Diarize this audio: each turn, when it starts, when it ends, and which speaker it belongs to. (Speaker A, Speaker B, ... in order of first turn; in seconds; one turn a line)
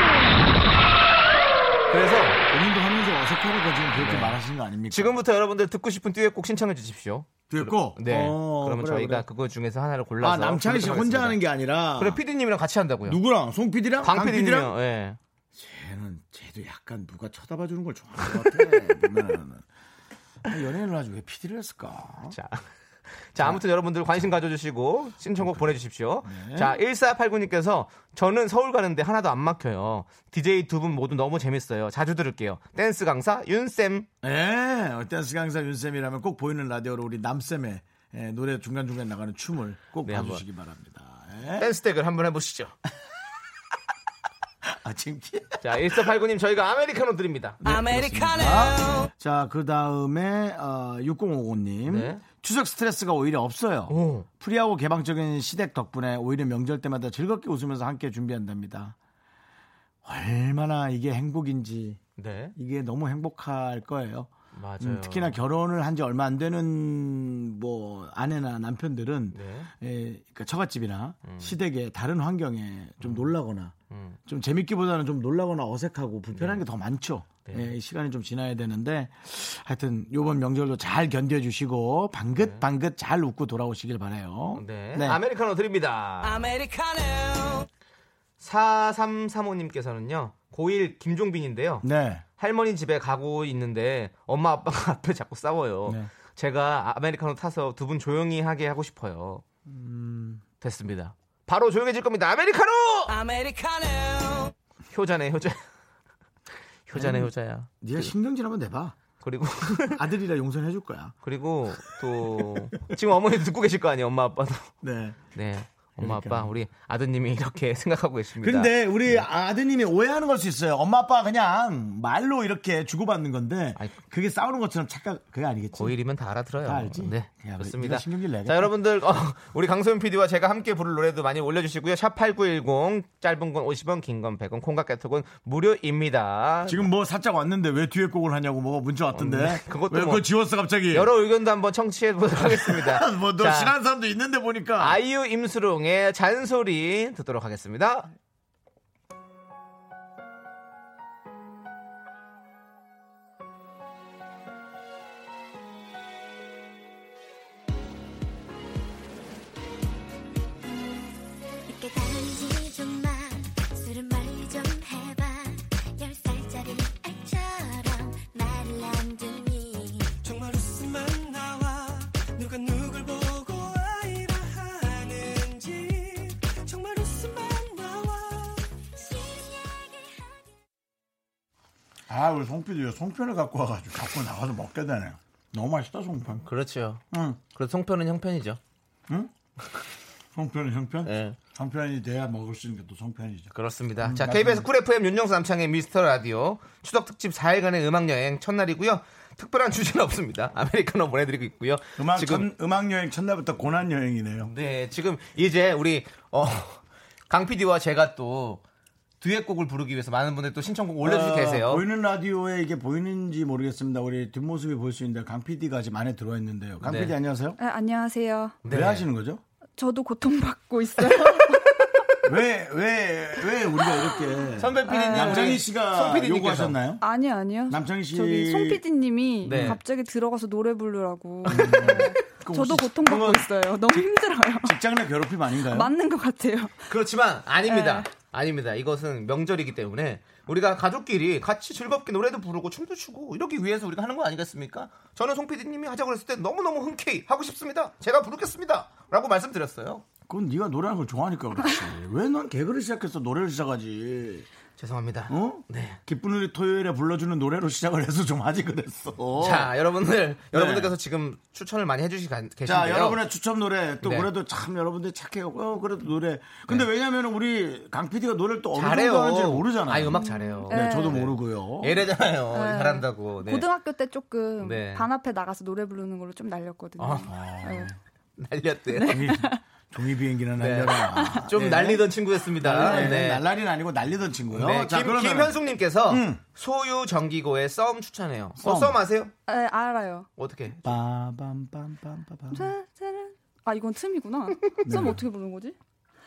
Speaker A: 1.9-2.4
Speaker B: 2.5-5.2
Speaker A: 4.0-4.4
Speaker A: 4.9-11.4
Speaker B: 7.5-9.2
Speaker B: 10.2-12.2
Speaker A: 11.9-13.2
Speaker B: 13.0-14.7
Speaker A: 14.0-15.2
Speaker B: 15.5-19.6
Speaker A: 18.3-18.9
Speaker B: 20.4-22.4
Speaker A: 22.3-34.1
Speaker B: 25.4-25.7
Speaker B: 26.2-26.8
Speaker B: 34.2-41.7
Speaker A: 40.0-40.4
Speaker A: 41.6-42.7
Speaker B: 44.6-46.0
Speaker A: 45.6-47.6
Speaker B: 47.6-59.0
Speaker A: 51.9-52.2
Speaker A: 53.9-54.3
Speaker B: 60.0-62.0
Speaker A: 62.2-62.5
Speaker B: 62.5-73.7
Speaker A: 64.5-65.4
Speaker A: 69.3-69.7
Speaker A: 71.2-71.5
Speaker A: 73.9-74.2
Speaker B: 74.2-85.2
Speaker A: 76.3-76.6
Speaker A: 77.5-77.7
Speaker A: 82.4-82.6
Speaker A: 84.5-86.6
Speaker A: 88.4-91.8
Speaker B: 91.8-92.2
Speaker A: 92.4-99.4
Speaker B: 99.7-100.4
Speaker A: 100.6-103.3
Speaker A: 104.9-105.6
Speaker A: 106.9-108.1
Speaker B: 106.9-109.0
Speaker A: 109.2-110.0
Speaker B: 109.9-111.2
Speaker A: 111.2-114.7
Speaker B: 112.2-112.8
Speaker B: 114.8-115.2
Speaker A: 115.3-119.2
Speaker B: 116.0-116.5
Speaker B: 118.4-126.0
Speaker A: 125.7-136.9
Speaker B: 126.6-128.7
Speaker B: 136.7-141.1
Speaker A: 139.1-140.2
Speaker A: 140.9-143.7
Speaker B: 142.3-145.0
Speaker A: 144.8-148.1
Speaker C: 161.7-170.2
Speaker D: 170.2-178.7
Speaker C: 178.9-180.3
Speaker B: 182.1-186.5
Speaker A: 186.4-188.6
Speaker B: 187.1-187.4
Speaker B: 190.3-194.7
Speaker A: 191.0-191.4
Speaker A: 193.5-202.5
Speaker B: 202.0-204.5
Speaker A: 204.4-208.6
Speaker A: 209.2-211.8
Speaker B: 211.0-217.6
Speaker A: 216.8-217.1
Speaker E: 217.6-218.6
Speaker A: 218.6-219.0
Speaker B: 218.7-219.4
Speaker E: 219.8-222.2
Speaker B: 222.2-227.0
Speaker E: 223.8-225.6
Speaker A: 224.6-226.8
Speaker E: 227.0-234.8
Speaker B: 227.7-228.8
Speaker A: 229.4-229.8
Speaker B: 229.4-229.8
Speaker A: 231.5-232.0
Speaker B: 231.5-234.1
Speaker B: 234.6-235.9
Speaker E: 235.5-236.9
Speaker A: 236.9-250.0
Speaker E: 237.6-238.1
Speaker B: 250.3-254.5
Speaker A: 254.8-256.0
Speaker B: 255.3-259.7
Speaker A: 259.4-263.2
Speaker B: 260.5-260.9
Speaker B: 262.6-272.1
Speaker A: 264.0-264.3
Speaker A: 268.7-273.7
Speaker E: 270.1-271.3
Speaker E: 272.5-277.9
Speaker A: 274.6-275.1
Speaker A: 277.0-277.3
Speaker B: 277.2-277.9
Speaker A: 278.4-279.4
Speaker E: 278.9-279.6
Speaker B: 279.0-286.4
Speaker A: 280.6-283.4
Speaker E: 281.1-281.4
Speaker A: 284.5-289.3
Speaker B: 288.6-289.0
Speaker E: 289.5-290.3
Speaker A: 290.4-290.9
Speaker B: 290.8-292.7
Speaker E: 292.5-295.8
Speaker B: 294.8-295.2